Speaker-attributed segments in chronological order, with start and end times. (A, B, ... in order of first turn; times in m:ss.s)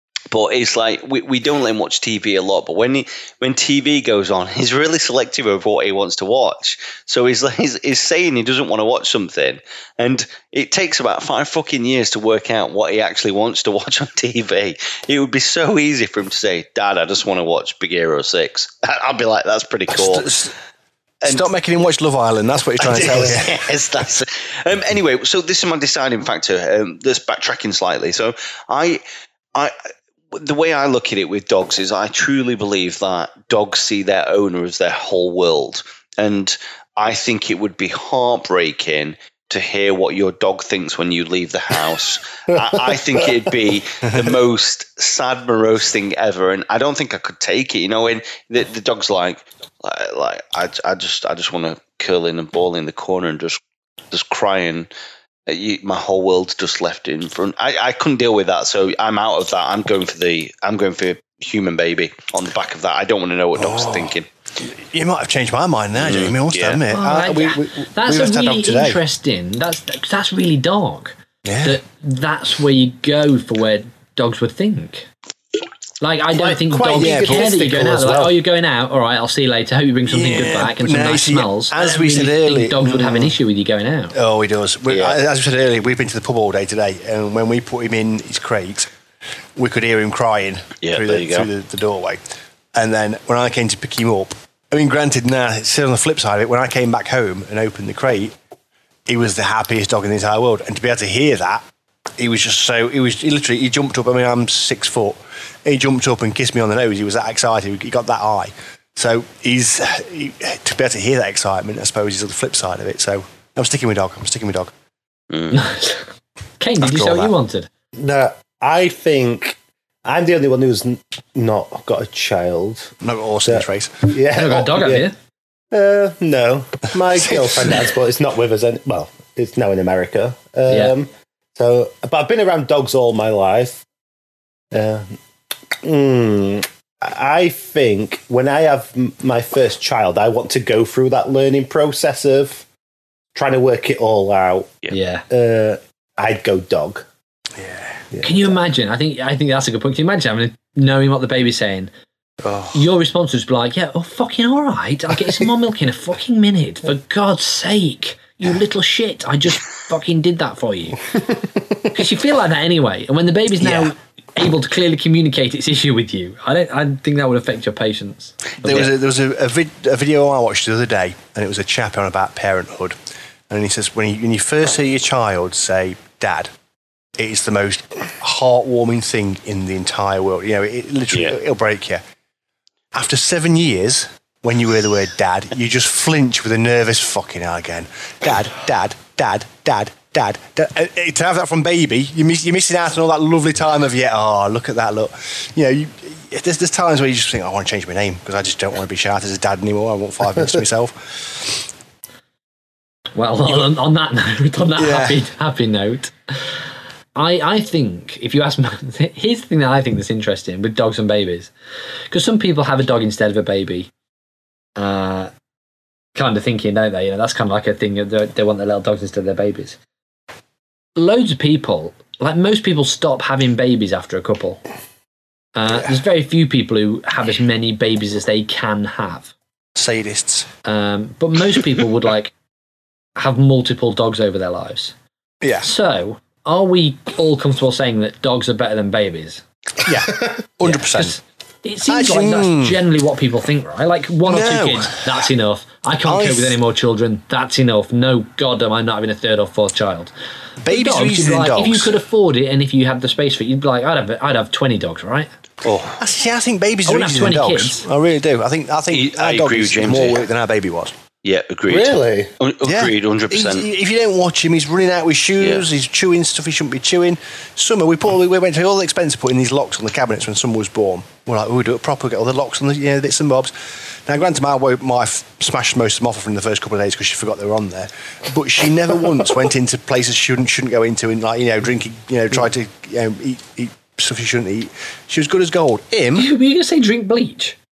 0:00.3-0:20.3 A
0:19.9-0:20.5 B
0:21.2-0:23.6 B
0:22.8-0:29.0 A
0:30.3-0:53.6 A
0:54.1-0:54.9 A
0:55.5-1:04.3 A
1:03.6-1:09.0 B
1:06.0-1:06.8 A
1:06.9-1:15.1 C
1:11.4-1:11.8 B
1:16.0-1:24.1 C
1:16.3-1:18.4 D
1:16.9-1:17.5 B
1:20.1-1:23.4 B
1:24.1-1:28.9 B
1:24.9-1:25.2 A
1:29.6-1:32.2 B
1:30.8-1:31.5 A
1:32.7-1:38.3 B
1:39.1-1:41.6 B
1:42.2-1:54.7 B
1:55.3-1:55.6 A
1:55.5-1:57.7 C
1:56.8-1:57.3 B
1:58.0-2:03.0 D
2:03.0-2:04.0 B
2:03.4-2:05.1 D
2:04.3-2:05.1 C
2:05.7-2:13.8 D
2:07.3-2:07.8 B
2:10.7-2:10.9 C
2:14.7-2:15.1 D
2:15.8-2:22.6 D
2:23.3-2:24.7 D
2:24.9-2:25.2 C
2:25.3-2:27.0 D
2:27.6-2:28.0 B
2:28.1-2:28.6 D
2:28.2-2:31.9 C
2:32.4-2:32.8 B
2:32.7-2:41.0 C
2:41.9-2:48.9 C
2:43.6-2:43.9 B
2:48.6-2:53.0 B
2:53.5-2:56.5 B
2:57.2-3:02.0 B
3:01.1-3:01.4 A
3:02.9-3:21.6 B
3:23.2-3:26.6 C
3:24.8-3:25.2 B
3:27.1-3:31.5 C
3:32.1-3:33.9 C
3:34.8-3:35.3 C
3:36.1-3:39.8 C
3:41.0-3:44.6 C
3:45.6-3:49.3 C
3:49.7-3:50.5 B
3:50.6-3:52.3 C
3:53.2-3:54.9 C
3:55.4-3:55.7 B
3:55.6-3:59.4 C
3:59.8-4:01.2 B
4:00.6-4:10.1 C
4:01.8-4:02.8 B
4:04.3-4:05.3 B
4:06.0-4:06.6 B
4:10.6-4:12.0 B
4:10.7-4:15.3 C
4:15.6-4:21.0 B
4:16.9-4:17.8 C
4:18.9-4:20.3 A
4:21.2-4:23.7 A
4:21.7-4:22.3 D
4:22.6-4:46.3 B
4:46.1-4:47.6 C